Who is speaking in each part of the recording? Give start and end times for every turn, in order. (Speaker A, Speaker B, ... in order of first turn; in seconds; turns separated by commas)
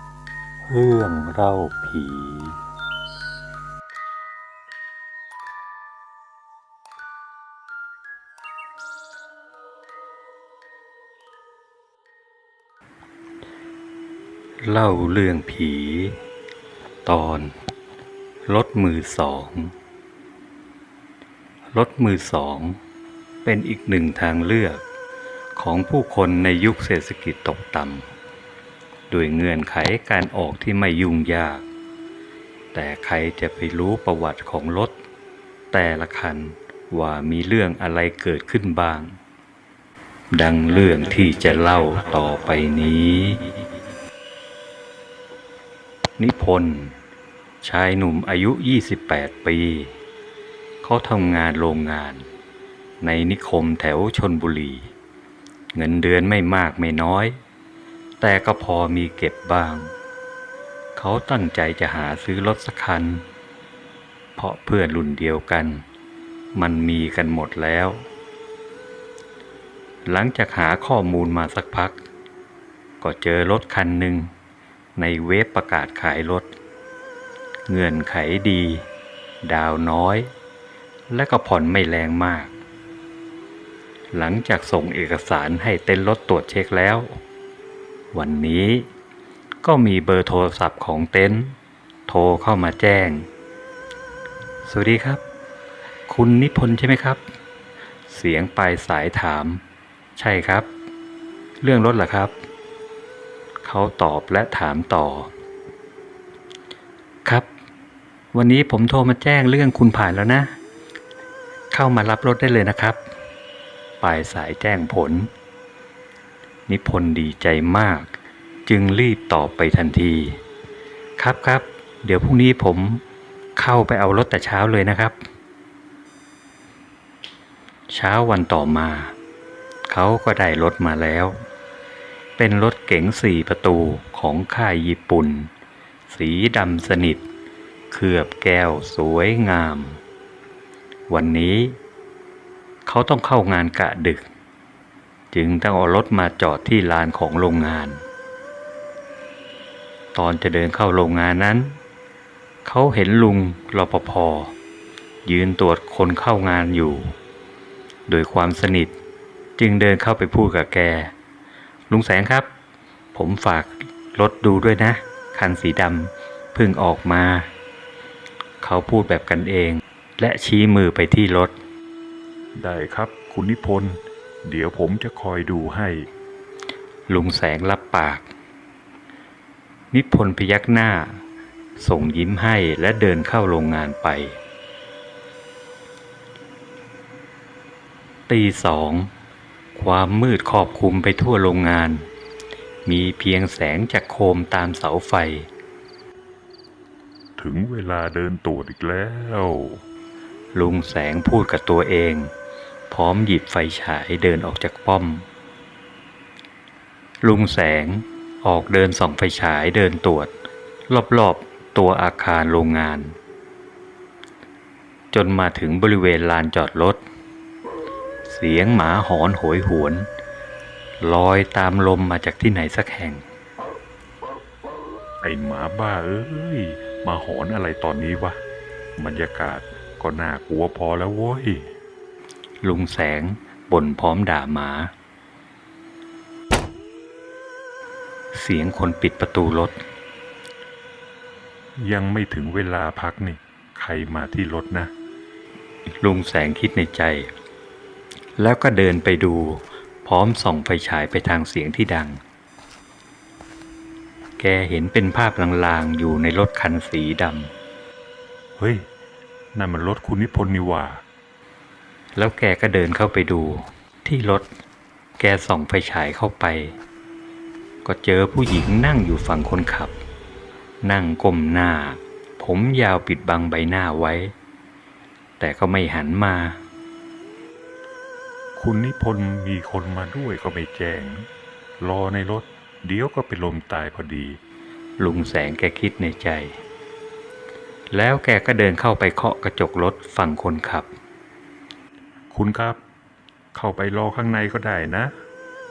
Speaker A: 0.6-2.6, Speaker A: 14.6-16.2, Speaker A: 17.0-17.5, Speaker A: 18.5-19.7, Speaker A: 21.7-22.8, Speaker A: 23.4-24.8, Speaker A: 25.6-28.0, Speaker A: 29.1-31.6, Speaker A: 32.7-34.9, Speaker A: 35.7-39.1, Speaker A: 40.3-43.5, Speaker A: 46.2-47.0, Speaker A: 47.6-49.9, Speaker A: 50.8-52.2, Speaker A: 53.0-54.9, Speaker A: 55.7-57.4, Speaker A: 58.2-59.9, Speaker A: 61.0-63.2, Speaker A: 64.3-65.8, Speaker A: 66.5-68.0, Speaker A: 70.0-72.0, Speaker A: 73.0-74.3, Speaker A: 75.0-76.5, Speaker A: 77.7-78.8, Speaker A: 79.4-80.3, Speaker A: 81.1-82.5, Speaker A: 84.1-87.2, Speaker A: 88.1-88.9, Speaker A: 89.6-91.5, Speaker A: 92.1-93.2, Speaker A: 94.6-95.2, Speaker A: 96.1-97.2, Speaker A: 98.1-99.6, Speaker A: 100.2-100.7, Speaker A: 101.6-102.3, Speaker A: 103.6-105.3, Speaker A: 108.3-110.5, Speaker A: 111.7-113.0, Speaker A: 114.0-115.3, Speaker A: 116.7-118.1, Speaker A: 118.7-120.4, Speaker A: 121.2-123.0, Speaker A: 123.5-125.2, Speaker A: 127.9-129.1, Speaker A: 129.9-131.4, Speaker A: 132.4-135.5, Speaker A: 136.1-137.2, Speaker A: 137.9-140.0, Speaker A: 141.1-141.8, Speaker A: 142.8-144.3, Speaker A: 145.3-148.0, Speaker A: 150.1-151.8, Speaker A: 152.6-154.5, Speaker A: 155.2-157.1, Speaker A: 158.1-158.9, Speaker A: 159.6-161.1, Speaker A: 161.9-162.5, Speaker A: 163.1-167.5, Speaker A: 168.6-171.6, Speaker B: 172.6-176.1, Speaker A: 177.1-178.3, Speaker A: 179.9-181.2, Speaker A: 181.8-184.4, Speaker A: 188.3-189.1, Speaker A: 189.7-192.1, Speaker A: 192.8-195.5, Speaker B: 197.4-199.8, Speaker A: 200.5-202.3, Speaker A: 202.9-205.2, Speaker A: 207.2-210.3, Speaker A: 210.9-213.2, Speaker A: 215.1-217.0, Speaker A: 218.2-220.1, Speaker A: 221.0-223.2, Speaker B: 225.2-228.4, Speaker B: 229.0-231.7, Speaker A: 232.6-234.9, Speaker A: 238.3-239.8, Speaker B: 241.8-244.9, Speaker A: 246.0-247.3, Speaker A: 248.4-252.2, Speaker A: 254.4-257.5, Speaker B: 258.6-258.9, Speaker B: 259.5-261.0, Speaker A: 262.1-264.5, Speaker A: 265.2-266.8, Speaker A: 267.8-269.9, Speaker A: 270.8-274.3, Speaker A: 275.4-276.6, Speaker B: 278.6-281.3, Speaker B: 281.8-284.4, Speaker A: 285.0-286.6, Speaker A: 287.9-290.9, Speaker B: 292.3-292.8, Speaker B: 293.5-295.1